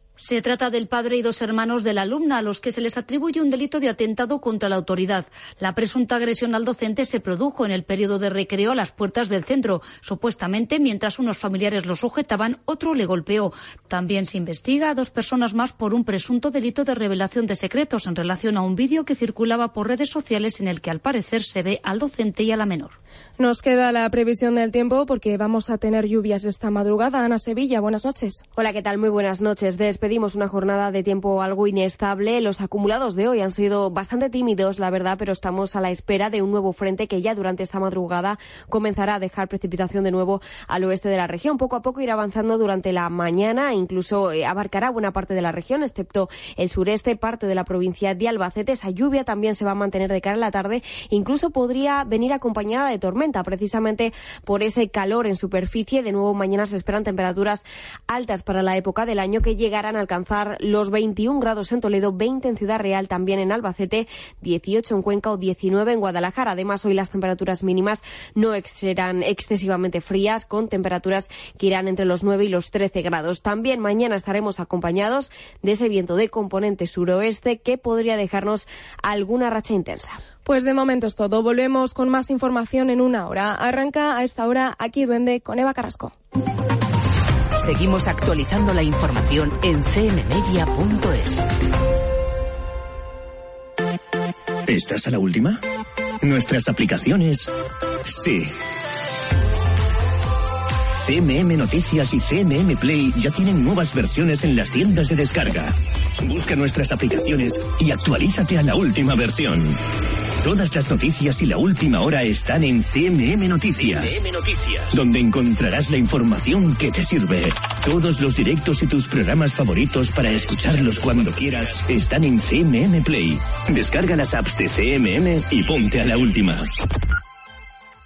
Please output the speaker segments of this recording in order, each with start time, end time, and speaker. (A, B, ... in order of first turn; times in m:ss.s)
0:00.2-0:23.0 A
0:23.4-0:28.4 B
0:28.6-1:20.2 C
1:20.4-1:26.1 B
1:27.6-1:31.6 D
1:34.7-1:35.6 E
1:36.2-1:37.5 E
1:38.1-1:38.5 E
1:41.0-1:49.8 E
1:50.4-2:06.7 E